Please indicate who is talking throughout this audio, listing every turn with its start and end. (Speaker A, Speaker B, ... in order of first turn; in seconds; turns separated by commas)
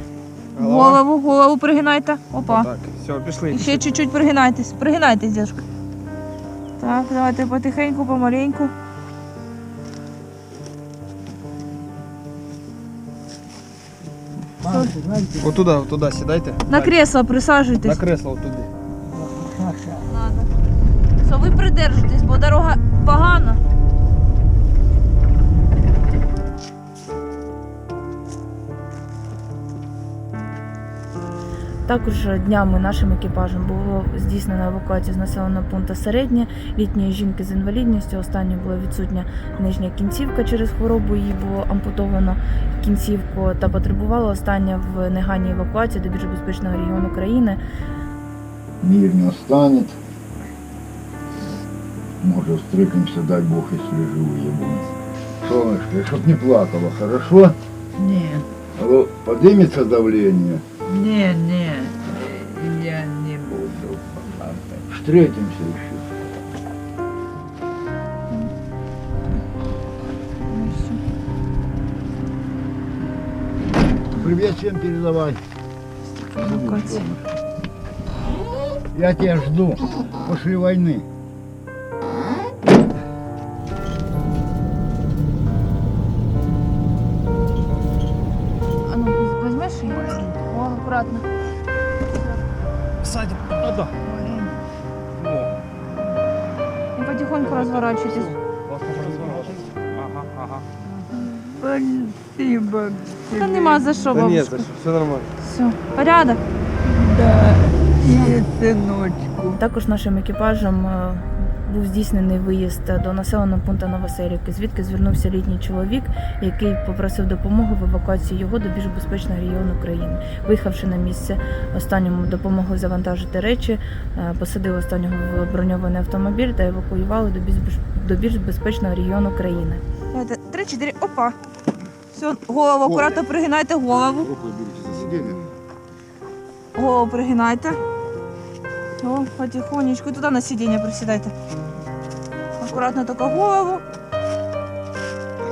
Speaker A: 0.6-1.0, Speaker B: 0.6-2.7, Speaker A: 2.4-3.9, Speaker B: 3.5-5.6, Speaker B: 6.8-8.7, Speaker B: 14.6-14.9, Speaker C: 14.6-15.5, Speaker A: 15.4-17.0, Speaker B: 16.7-18.0, Speaker A: 17.8-18.7, Speaker C: 19.2-20.0, Speaker B: 20.1-20.5, Speaker B: 21.2-23.6, Speaker D: 31.9-47.6, Speaker E: 48.8-50.0, Speaker E: 52.2-57.5, Speaker C: 58.0-58.4, Speaker E: 58.7-60.9, Speaker C: 60.9-64.8, Speaker E: 63.5-66.3, Speaker B: 70.5-71.0, Speaker E: 74.2-75.4, Speaker B: 76.2-77.1, Speaker E: 76.4-77.2, Speaker E: 78.9-81.0, Speaker B: 88.8-91.2, Speaker A: 93.0-93.9, Speaker C: 94.1-94.5, Speaker A: 95.2-95.5, Speaker B: 97.0-98.4, Speaker A: 98.7-100.6, Speaker C: 101.2-104.0, Speaker B: 103.3-104.7, Speaker A: 104.1-105.3, Speaker B: 105.4-106.4, Speaker C: 106.8-109.5, Speaker D: 109.5-129.8, Speaker B: 130.1-131.3, Speaker B: 132.1-134.3, Speaker E: 132.8-133.2, Speaker E: 134.2-135.4, Speaker B: 136.7-137.8, Speaker B: 139.0-141.3, Speaker B: 142.6-143.8